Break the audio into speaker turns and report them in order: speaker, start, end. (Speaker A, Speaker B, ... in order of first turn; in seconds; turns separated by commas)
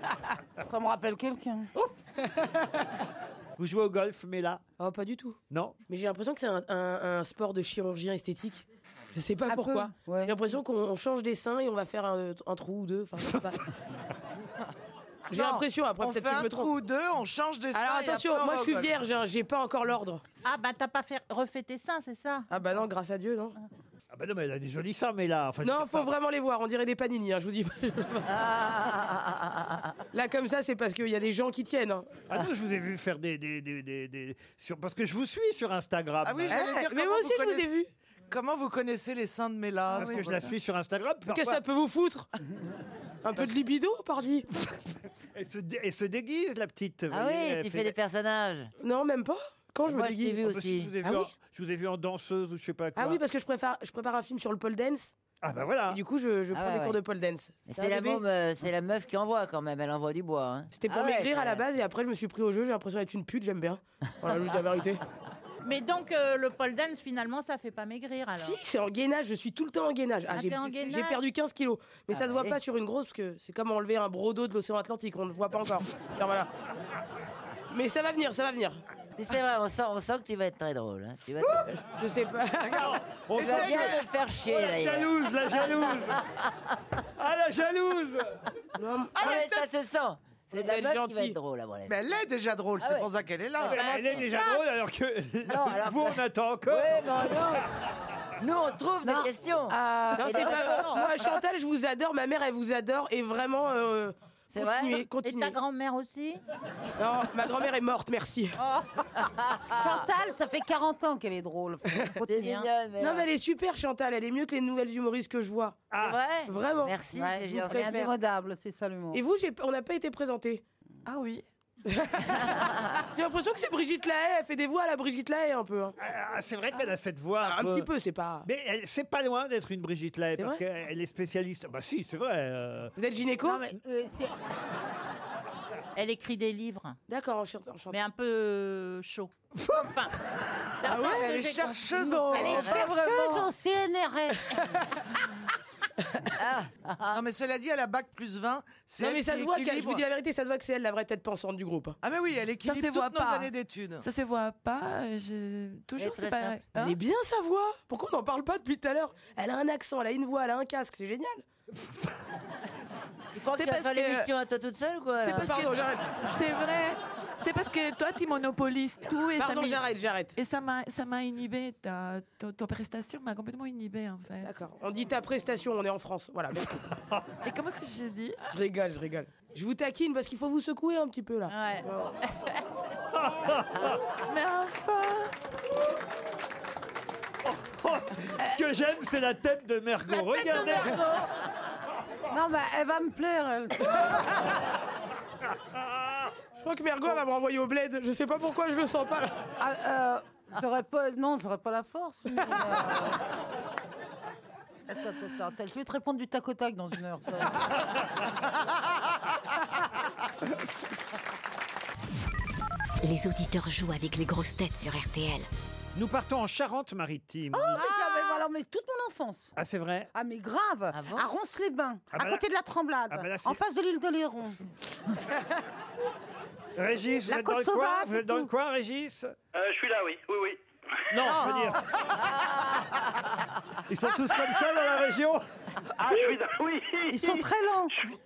Speaker A: 0.6-1.7, Speaker B: 2.3-2.8, Speaker C: 3.6-4.6, Speaker B: 4.8-13.6, Speaker C: 5.5-5.8, Speaker A: 9.5-10.4, Speaker B: 15.3-16.7, Speaker D: 15.3-18.9, Speaker B: 17.7-20.2, Speaker E: 20.4-22.5, Speaker B: 22.5-23.6, Speaker C: 24.1-26.1, Speaker B: 25.6-28.4, Speaker F: 28.3-29.8, Speaker B: 30.1-32.4, Speaker C: 32.3-36.6, Speaker D: 36.2-37.7, Speaker B: 36.5-37.9, Speaker D: 38.3-40.5, Speaker G: 39.9-40.3, Speaker C: 40.0-41.6, Speaker B: 41.3-42.3, Speaker B: 43.2-44.5, Speaker C: 45.4-47.9, Speaker F: 47.1-48.7, Speaker B: 48.8-50.4, Speaker F: 49.9-50.9, Speaker C: 50.4-53.2, Speaker B: 51.0-51.3, Speaker B: 53.0-55.1, Speaker C: 55.4-56.0, Speaker B: 55.9-58.2, Speaker F: 56.5-57.0, Speaker F: 57.7-61.6, Speaker B: 60.7-65.0, Speaker E: 65.6-68.6, Speaker B: 68.3-76.5, Speaker E: 70.3-71.2, Speaker D: 70.4-71.0, Speaker F: 72.1-72.6, Speaker B: 77.7-78.8, Speaker F: 79.2-81.7, Speaker B: 81.6-83.0, Speaker C: 82.8-86.2, Speaker F: 83.3-86.5, Speaker D: 83.4-84.0, Speaker C: 87.2-88.3, Speaker B: 88.8-89.4, Speaker D: 89.2-89.7, Speaker F: 89.2-92.0, Speaker B: 90.5-91.4, Speaker D: 91.9-94.3, Speaker F: 92.8-93.1, Speaker F: 93.6-94.2, Speaker C: 93.7-96.9, Speaker E: 93.9-94.6, Speaker F: 95.5-97.7, Speaker F: 98.4-101.0, Speaker A: 99.0-101.0, Speaker B: 100.1-105.6, Speaker F: 104.5-105.1, Speaker E: 105.2-106.4, Speaker B: 107.0-108.6, Speaker F: 109.1-110.1, Speaker A: 109.7-112.7, Speaker F: 112.2-113.3, Speaker B: 113.0-115.9, Speaker C: 115.9-116.2, Speaker F: 116.0-117.9, Speaker B: 116.5-117.0, Speaker A: 117.2-119.2, Speaker B: 117.5-118.1, Speaker B: 119.1-120.6, Speaker G: 121.1-121.4, Speaker B: 121.9-122.6, Speaker B: 123.1-126.0, Speaker C: 126.0-127.9, Speaker B: 127.4-128.5, Speaker C: 128.4-132.9, Speaker B: 130.4-130.6, Speaker B: 133.0-133.6, Speaker A: 133.4-134.3, Speaker E: 135.9-137.0, Speaker B: 137.1-138.0, Speaker E: 137.9-140.1, Speaker E: 140.8-143.3, Speaker D: 140.8-142.9, Speaker B: 140.9-141.2, Speaker A: 142.0-144.8, Speaker F: 142.4-143.0, Speaker F: 146.3-147.2, Speaker D: 147.1-150.1, Speaker B: 149.0-152.0, Speaker D: 152.0-154.0, Speaker G: 152.6-157.0, Speaker F: 156.0-156.6, Speaker B: 156.7-161.4, Speaker F: 163.3-165.7, Speaker G: 163.5-164.3, Speaker G: 165.2-169.8, Speaker B: 165.4-166.2, Speaker B: 169.4-170.3, Speaker G: 170.3-174.5, Speaker B: 174.4-176.8, Speaker G: 177.4-178.4, Speaker B: 178.5-182.1, Speaker E: 181.5-181.9, Speaker C: 183.1-184.0, Speaker G: 184.3-185.3, Speaker C: 187.5-191.0, Speaker A: 192.3-194.2, Speaker C: 195.7-196.3, Speaker B: 196.6-199.4, Speaker A: 199.6-203.2, Speaker A: 204.9-208.0, Speaker H: 213.0-215.5, Speaker C: 215.9-217.8, Speaker A: 217.5-219.5, Speaker E: 217.8-218.4, Speaker C: 219.6-220.1, Speaker A: 220.1-224.6, Speaker F: 220.9-221.3, Speaker C: 222.1-222.4, Speaker C: 223.1-223.6, Speaker C: 226.8-229.3, Speaker A: 227.3-228.5, Speaker I: 229.6-230.6, Speaker C: 231.1-231.9, Speaker D: 231.2-232.2, Speaker C: 233.9-235.4, Speaker I: 236.0-237.4, Speaker A: 237.1-237.9